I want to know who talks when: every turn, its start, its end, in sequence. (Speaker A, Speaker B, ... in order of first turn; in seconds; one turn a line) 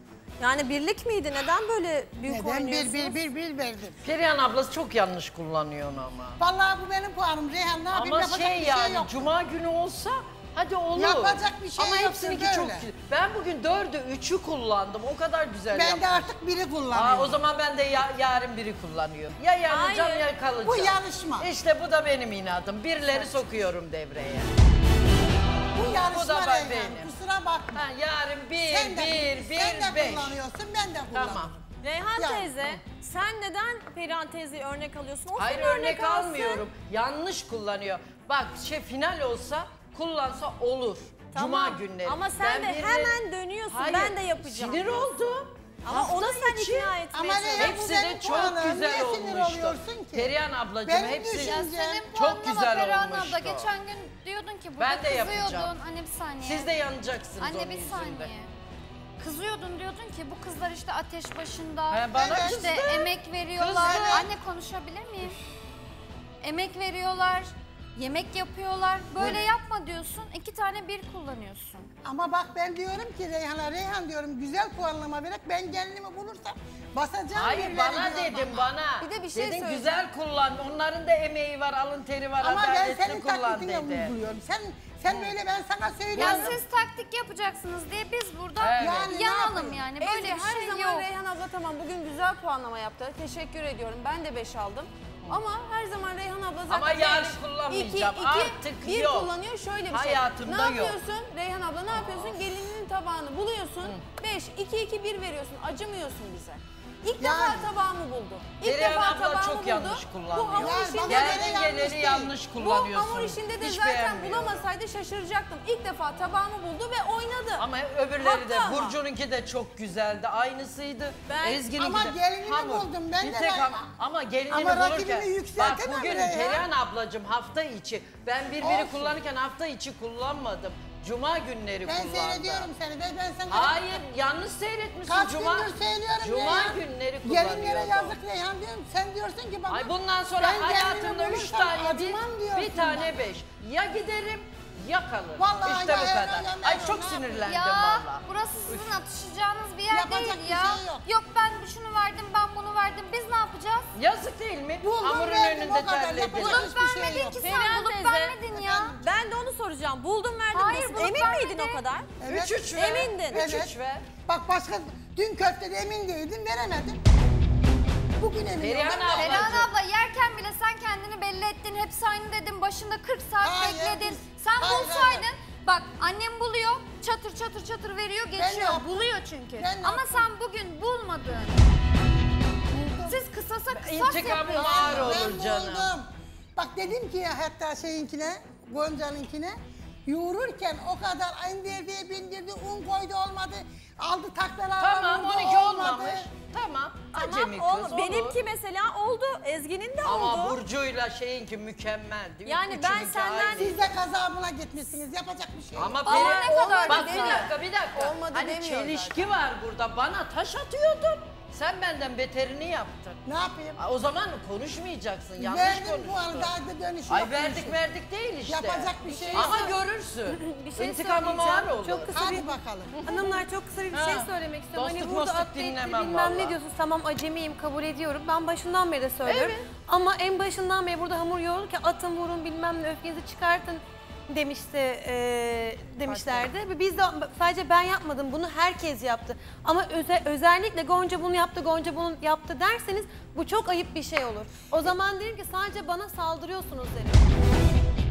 Speaker A: 0.4-3.2
Speaker B: 2.2-4.0
Speaker C: 4.0-6.4
Speaker B: 6.4-9.3
Speaker C: 7.9-16.3
Speaker B: 10.9-12.9
Speaker B: 15.7-17.3
Speaker C: 16.9-24.5
Speaker A: 19.7-20.3
Speaker B: 20.6-21.5
Speaker B: 25.7-27.8
Speaker C: 25.8-27.1
Speaker C: 27.7-30.4
Speaker B: 28.6-31.6
Speaker C: 31.1-31.5
Speaker A: 31.8-36.6
Speaker B: 32.2-32.7
Speaker C: 35.4-47.0
Speaker A: 41.3-45.2
Speaker A: 45.8-47.8
Speaker B: 47.1-52.1
Speaker C: 47.6-53.7
Speaker D: 51.4-56.7
Speaker C: 54.8-55.8
Speaker C: 56.4-58.3
Speaker D: 57.4-58.5
Speaker D: 59.2-65.4
Speaker C: 61.9-64.3
Speaker B: 62.1-62.6
Speaker B: 63.8-64.3
Speaker D: 66.4-71.9
Speaker B: 72.0-78.7
Speaker C: 77.3-84.1
Speaker E: 79.0-80.1
Speaker B: 82.4-86.6
Speaker D: 86.1-91.0
Speaker C: 86.2-86.5
Speaker C: 88.6-89.1
Speaker B: 88.8-89.8
Speaker E: 89.9-111.7
Speaker C: 96.7-99.3
Speaker C: 99.9-101.0
Speaker C: 101.9-102.3
Speaker B: 107.2-107.7
Speaker C: 108.6-114.7
Speaker B: 110.6-112.3
Speaker E: 112.5-119.0
Speaker C: 117.6-132.7
Speaker A: 121.2-121.7
Speaker B: 121.8-123.9
Speaker B: 124.5-126.6
Speaker B: 128.6-129.1
Speaker B: 131.8-134.0
Speaker C: 133.5-138.2
Speaker B: 135.1-143.1
Speaker C: 139.7-149.0
Speaker B: 145.4-147.6
Speaker D: 147.4-153.9
Speaker B: 149.9-151.0
Speaker C: 153.9-156.7
Speaker B: 154.8-157.4
Speaker D: 156.3-159.0
Speaker A: 157.4-158.4
Speaker B: 158.5-159.0
Speaker A: 159.0-162.1
Speaker D: 160.5-161.8
Speaker B: 162.2-167.0
Speaker C: 162.2-164.1
Speaker A: 162.7-163.4
Speaker B: 168.2-169.7
Speaker C: 168.6-169.7
Speaker D: 169.2-181.6
Speaker B: 173.4-175.3
Speaker B: 178.3-178.9
Speaker B: 179.6-180.3
Speaker B: 182.7-183.2
Speaker D: 183.1-185.2
Speaker C: 183.7-185.9
Speaker B: 184.5-196.3
Speaker C: 194.8-198.4
Speaker A: 197.1-200.6
Speaker C: 200.0-203.9
Speaker A: 202.4-203.7
Speaker B: 203.5-206.2
Speaker C: 205.8-213.2
Speaker D: 206.0-207.5
Speaker E: 206.6-209.2
Speaker B: 213.2-213.8
Speaker C: 213.8-216.5
Speaker B: 215.4-217.8
Speaker C: 217.1-222.3
Speaker B: 218.5-219.7
Speaker F: 219.3-219.7
Speaker F: 220.3-222.5
Speaker B: 222.1-223.1
Speaker F: 223.0-247.2
Speaker C: 223.9-226.6
Speaker C: 229.2-229.6
Speaker C: 236.1-236.4